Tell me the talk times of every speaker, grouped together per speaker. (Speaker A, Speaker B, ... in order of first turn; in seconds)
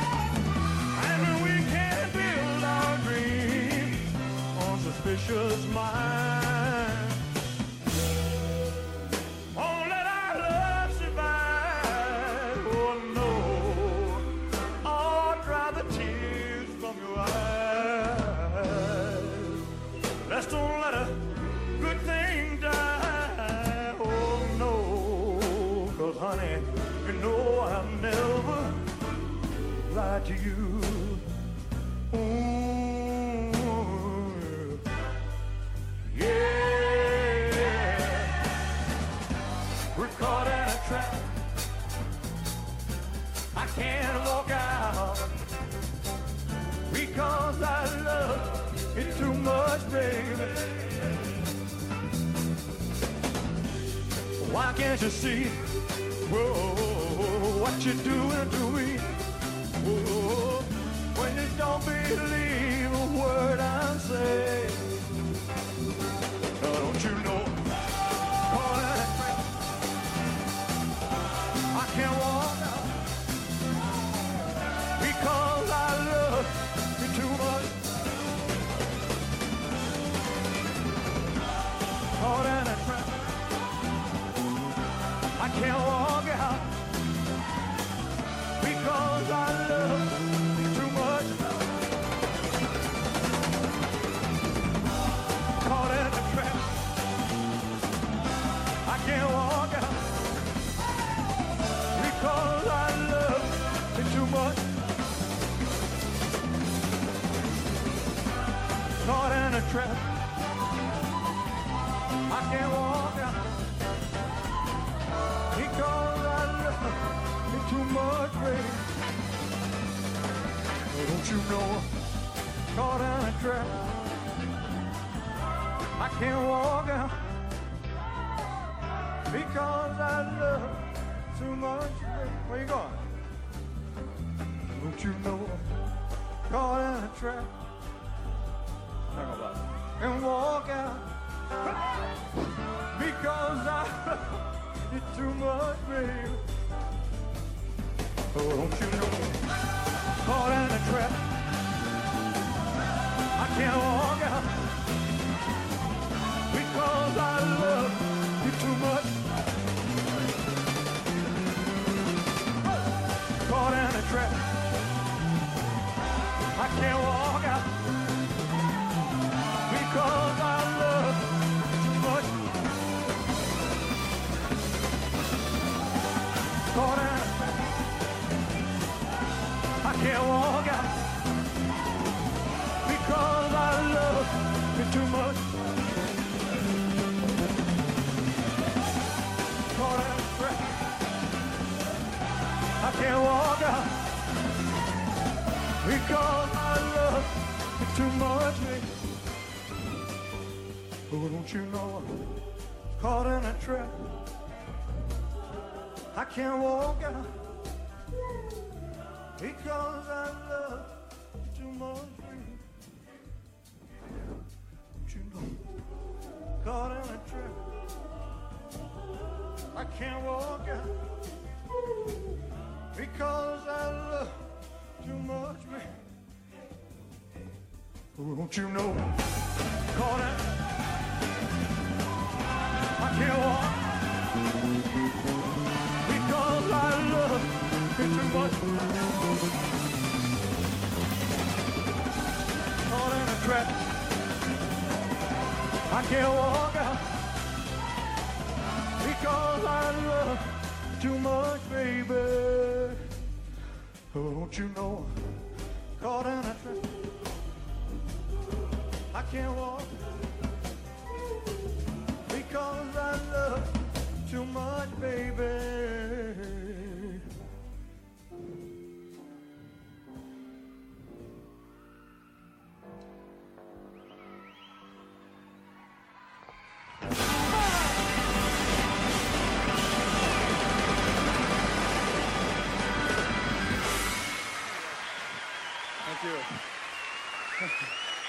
Speaker A: 0.9-7.2, 9.5-19.6, 20.2-29.0, 29.8-31.2, 32.1-34.8, 36.1-38.5, 39.9-41.4, 43.5-45.3, 46.9-51.1, 54.4-59.1, 59.7-64.9, 66.6-67.7, 68.3-69.5, 71.7-73.0, 75.0-78.0, 82.1-83.4, 85.4-86.8, 88.6-91.6, 95.6-96.9, 98.8-100.1, 101.9-104.8, 109.0-110.2, 112.3-113.7, 115.5-118.9, 120.9-121.9, 122.7-124.0, 126.0-127.2, 129.3-133.1, 134.7-135.7, 136.5-137.5, 139.1-141.1, 142.9-146.4, 148.3-149.5, 150.2-151.3, 153.3-154.6, 156.5-159.2, 163.4-164.6, 166.5-167.8, 169.7-172.5, 176.7-177.6, 179.8-181.0, 182.8-185.6, 189.7-190.8, 192.8-194.1, 195.8-198.9, 201.1-202.4, 203.0-204.2, 206.1-207.3, 209.4-212.6, 215.0-215.7, 216.6-217.8, 219.7-221.0, 222.9-224.4, 225.0-226.0, 228.2-229.2, 229.9-230.6, 233.0-234.2, 236.0-239.0, 242.9-244.1, 245.9-247.1, 249.0-253.1, 254.1-255.1, 256.0-257.0, 259.1-260.1, 262.3-267.3, 286.0-286.6